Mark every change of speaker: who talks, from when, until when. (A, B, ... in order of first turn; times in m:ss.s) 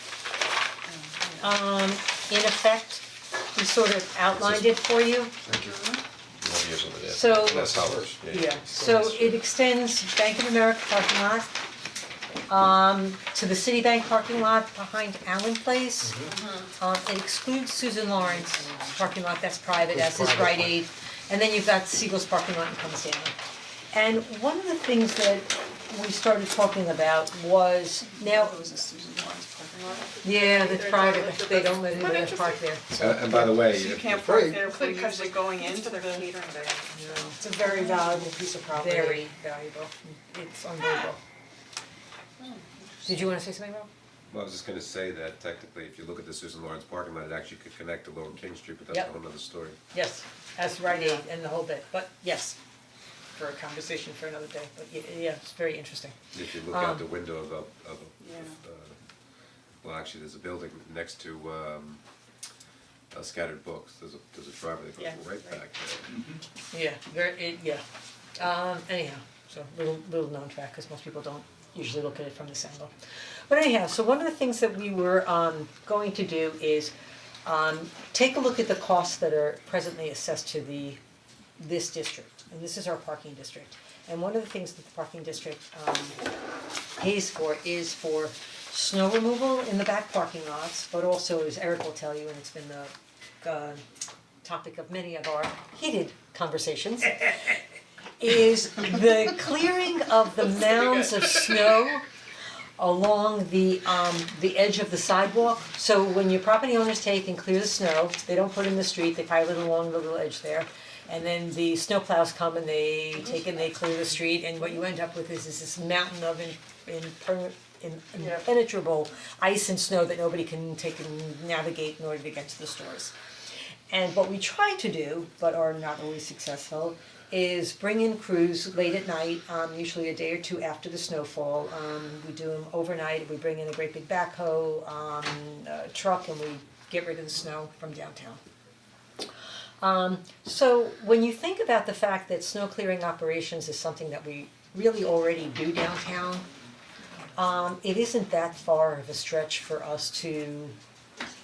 0:00.9-0:01.5 A
0:01.4-0:05.3 B
0:04.4-0:04.6 C
0:05.5-0:05.8 D
0:05.6-0:06.0 A
0:06.4-0:08.6 C
0:07.1-0:11.5 B
0:07.4-0:09.4 D
0:12.5-0:16.3 B
0:16.0-0:16.4 D
0:16.3-0:16.6 A
0:16.8-0:23.3 B
0:19.9-0:20.8 D
0:23.9-0:28.6 B
0:28.2-0:30.1 A
0:29.8-0:32.7 E
0:30.2-0:33.6 B
0:32.9-0:34.5 C
0:33.7-0:36.3 A
0:34.2-0:34.6 D
0:34.6-0:38.4 E
0:36.9-0:41.2 B
0:37.4-0:39.0 A
0:42.4-0:43.2 A
0:43.0-0:43.9 B
0:44.3-0:49.8 C
0:49.9-0:52.6 B
0:50.9-0:51.2 A
0:53.4-0:57.1 B
0:56.3-0:59.0 C
0:58.2-0:58.6 A
0:59.8-1:02.0 C
1:03.1-1:06.1 C
1:05.0-1:05.6 A
1:06.7-1:07.8 B
1:08.4-1:12.9 B
1:13.5-1:16.9 B
1:17.4-1:21.0 B
1:21.6-1:26.2 B
1:27.0-1:33.8 B
1:34.4-1:37.6 B
1:38.2-1:42.0 B
1:42.8-2:03.1 B
2:03.9-2:18.4 B
2:19.8-2:26.5 B
2:27.4-2:30.8 B